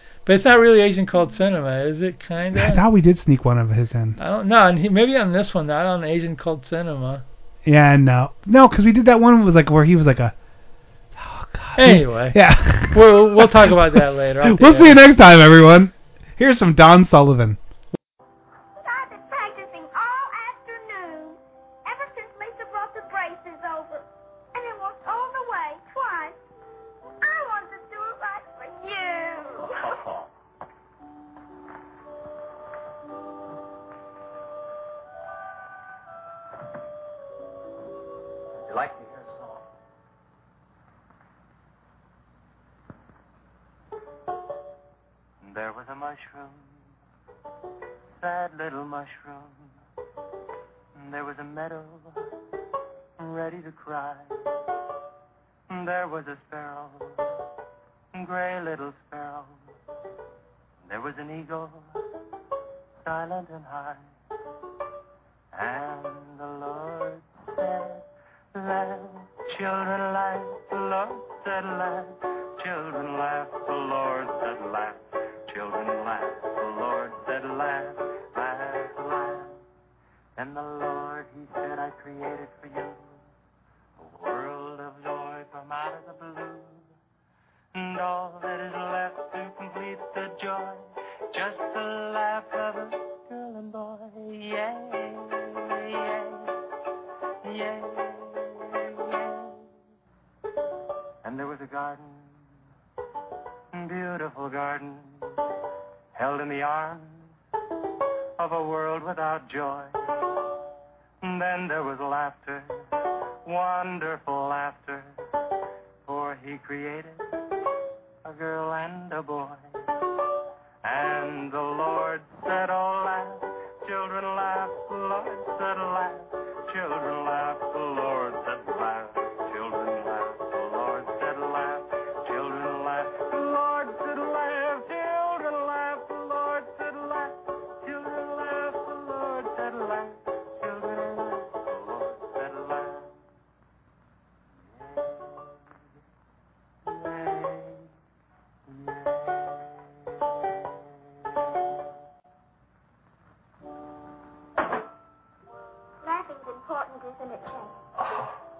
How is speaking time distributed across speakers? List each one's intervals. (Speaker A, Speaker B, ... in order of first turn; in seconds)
Speaker A: 0.3-2.8, 4.2-7.2, 11.8-12.4, 12.9-15.0
Speaker B: 2.5-4.2, 7.6-10.3, 11.2-17.6
Speaker C: 18.8-26.4, 27.2-29.9, 156.0-157.8
Speaker D: 29.8-30.3, 38.6-39.6, 45.4-46.7, 48.2-49.7, 51.0-52.2, 53.2-54.4, 55.7-57.3, 58.1-59.6, 60.9-62.0, 63.0-64.1, 65.5-79.6, 80.4-83.2, 84.0-86.9, 87.7-96.5, 97.4-99.6, 101.2-102.3, 103.7-105.2, 106.1-107.2, 108.4-110.0, 111.2-112.8, 113.5-115.1, 116.0-117.3, 118.2-119.6, 120.8-143.1, 144.6-145.6, 146.8-147.9, 148.7-151.9, 158.0-158.3